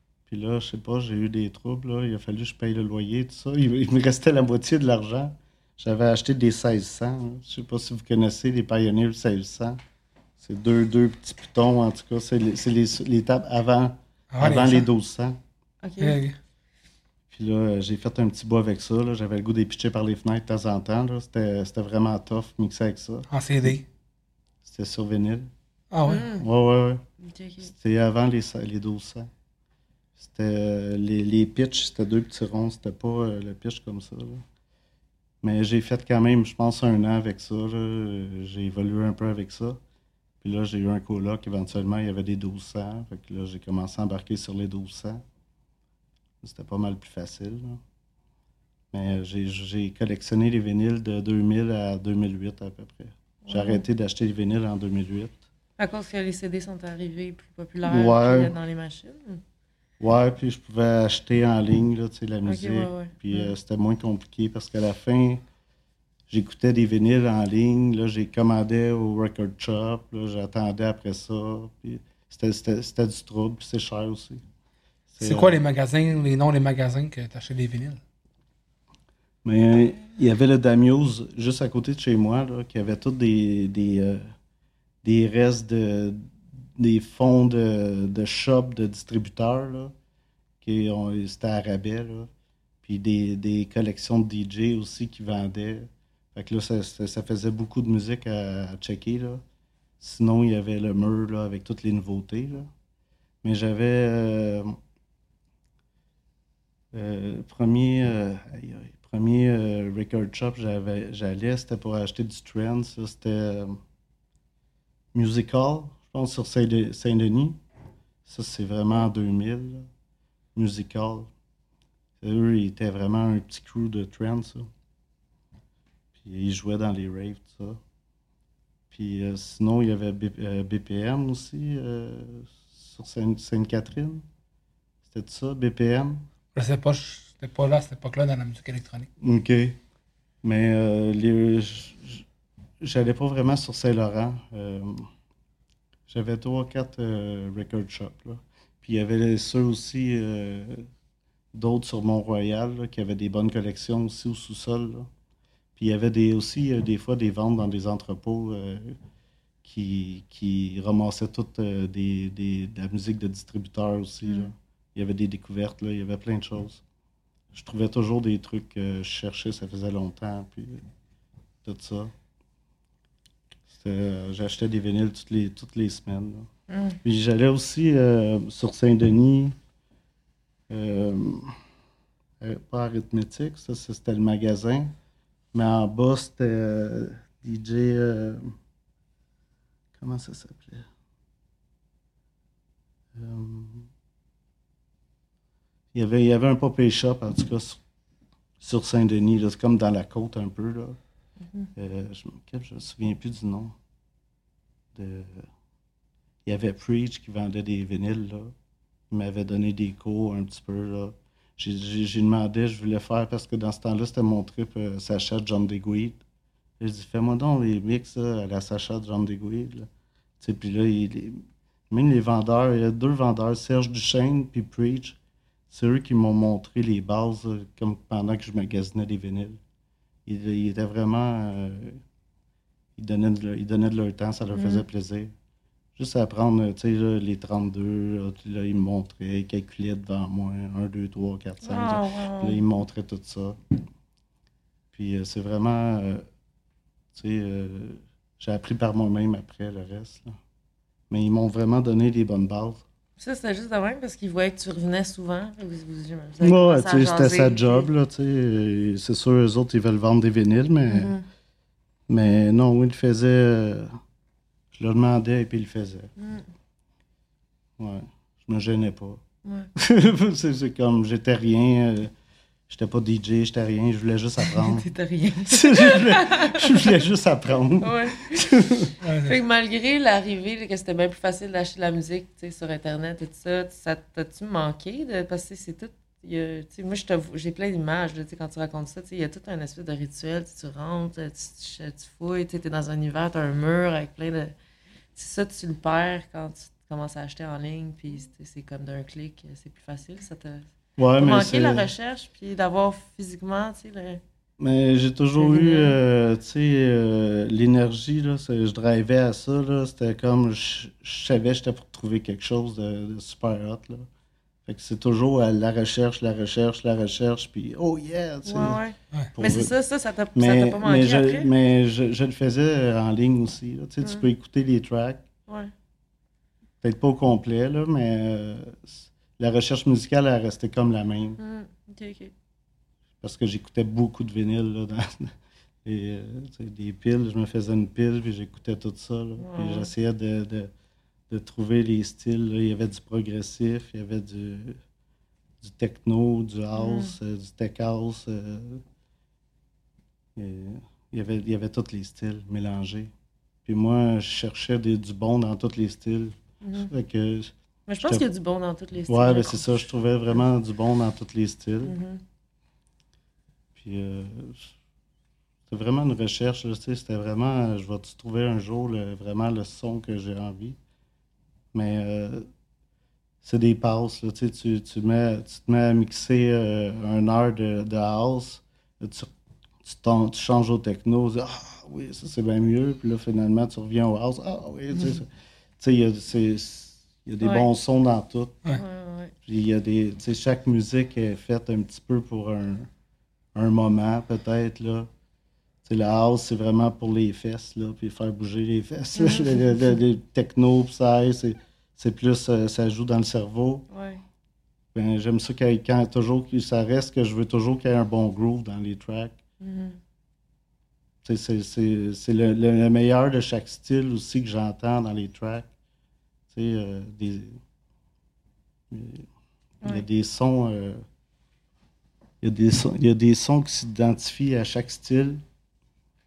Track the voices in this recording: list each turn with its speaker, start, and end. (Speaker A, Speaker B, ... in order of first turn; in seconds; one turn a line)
Speaker A: 0.3-9.8
Speaker A: 10.4-15.4
Speaker B: 14.3-14.9
Speaker C: 15.8-16.2
Speaker B: 16.0-16.4
Speaker A: 17.3-23.7
Speaker B: 23.3-23.9
Speaker A: 24.6-25.5
Speaker B: 25.9-26.3
Speaker C: 26.1-26.4
Speaker A: 26.3-27.0
Speaker C: 27.2-27.7
Speaker A: 27.6-29.3
Speaker A: 30.2-34.4
Speaker A: 35.4-39.8
Speaker A: 40.4-45.2
Speaker A: 46.4-47.8
Speaker A: 48.9-55.4
Speaker C: 53.5-53.8
Speaker C: 55.8-59.4
Speaker A: 57.8-58.5
Speaker A: 60.0-65.4
Speaker C: 62.5-63.5
Speaker A: 66.3-74.4
Speaker A: 75.1-75.6
Speaker B: 75.2-78.0
Speaker A: 79.4-84.3
Speaker A: 85.0-89.9
Speaker A: 90.6-92.3
Speaker A: 92.8-99.4
Speaker A: 100.0-102.7
Speaker A: 103.4-104.8
Speaker A: 106.9-113.8
Speaker A: 115.1-117.6
Speaker A: 118.2-119.9
Speaker A: 120.5-121.3
Speaker A: 122.2-124.7
Speaker A: 126.2-127.8
Speaker A: 128.9-134.2
Speaker A: 135.1-136.3
Speaker B: 136.6-139.1
Speaker A: 139.2-139.8
Speaker A: 140.4-142.2
Speaker A: 142.8-145.1
Speaker A: 146.1-150.9
Speaker A: 151.5-155.1
Speaker A: 155.8-159.0
Speaker A: 159.6-166.8
Speaker A: 167.5-170.8
Speaker A: 171.6-172.1
Speaker A: 173.7-176.5
Speaker C: 176.7-177.0
Speaker A: 177.0-179.6
Speaker A: 180.7-181.6
Speaker A: 182.4-184.9
Speaker A: 185.5-188.5
Speaker A: 190.0-190.9
Speaker A: 193.1-193.9
Speaker A: 195.9-197.8
Speaker A: 198.6-201.0
Speaker A: 201.8-203.8
Speaker A: 204.9-205.5
Speaker A: 206.4-208.6
Speaker A: 209.1-216.2
Speaker A: 216.8-219.9
Speaker A: 220.4-225.2
Speaker A: 225.7-229.6
Speaker A: 230.3-232.0
Speaker A: 233.0-235.3
Speaker C: 234.6-234.8
Speaker A: 236.0-243.6
Speaker C: 241.6-242.6
Speaker A: 244.9-246.3
Speaker A: 247.1-250.4
Speaker A: 251.1-252.8
Speaker C: 253.2-257.9
Speaker A: 256.4-261.1
Speaker C: 260.9-261.3
Speaker A: 262.1-264.0
Speaker A: 264.7-266.1
Speaker C: 266.2-266.5
Speaker A: 267.8-269.2
Speaker C: 269.4-269.7
Speaker A: 269.8-272.1
Speaker A: 272.7-274.9
Speaker C: 274.5-276.9
Speaker A: 275.5-278.9
Speaker C: 277.8-278.5
Speaker B: 279.0-279.4
Speaker C: 279.2-294.6
Speaker C: 295.1-304.2
Speaker A: 301.0-301.9
Speaker A: 304.6-314.1
Speaker C: 305.4-306.0
Speaker A: 314.7-318.8
Speaker C: 318.4-321.5
Speaker A: 319.4-319.7
Speaker A: 320.4-325.2
Speaker A: 326.8-331.4
Speaker C: 331.4-332.3
Speaker A: 333.2-335.3
Speaker A: 335.8-340.7
Speaker C: 339.4-339.9
Speaker A: 341.3-344.8
Speaker A: 345.6-348.8
Speaker C: 346.8-347.1
Speaker A: 350.4-353.1
Speaker A: 353.6-358.2
Speaker C: 356.6-356.9
Speaker C: 357.9-359.8
Speaker A: 359.1-362.0
Speaker C: 361.8-362.2
Speaker A: 363.8-364.7
Speaker A: 365.7-370.8
Speaker A: 371.7-372.5
Speaker A: 373.4-379.3
Speaker A: 379.8-388.6
Speaker C: 387.4-387.7
Speaker C: 388.7-389.3
Speaker A: 389.4-392.9
Speaker A: 393.6-395.1
Speaker A: 395.8-403.9
Speaker C: 399.2-399.6
Speaker C: 403.9-404.2
Speaker A: 404.9-409.4
Speaker C: 409.6-410.0
Speaker A: 411.2-415.7
Speaker A: 416.5-417.6
Speaker A: 418.9-419.3
Speaker A: 419.8-421.1
Speaker A: 422.4-425.4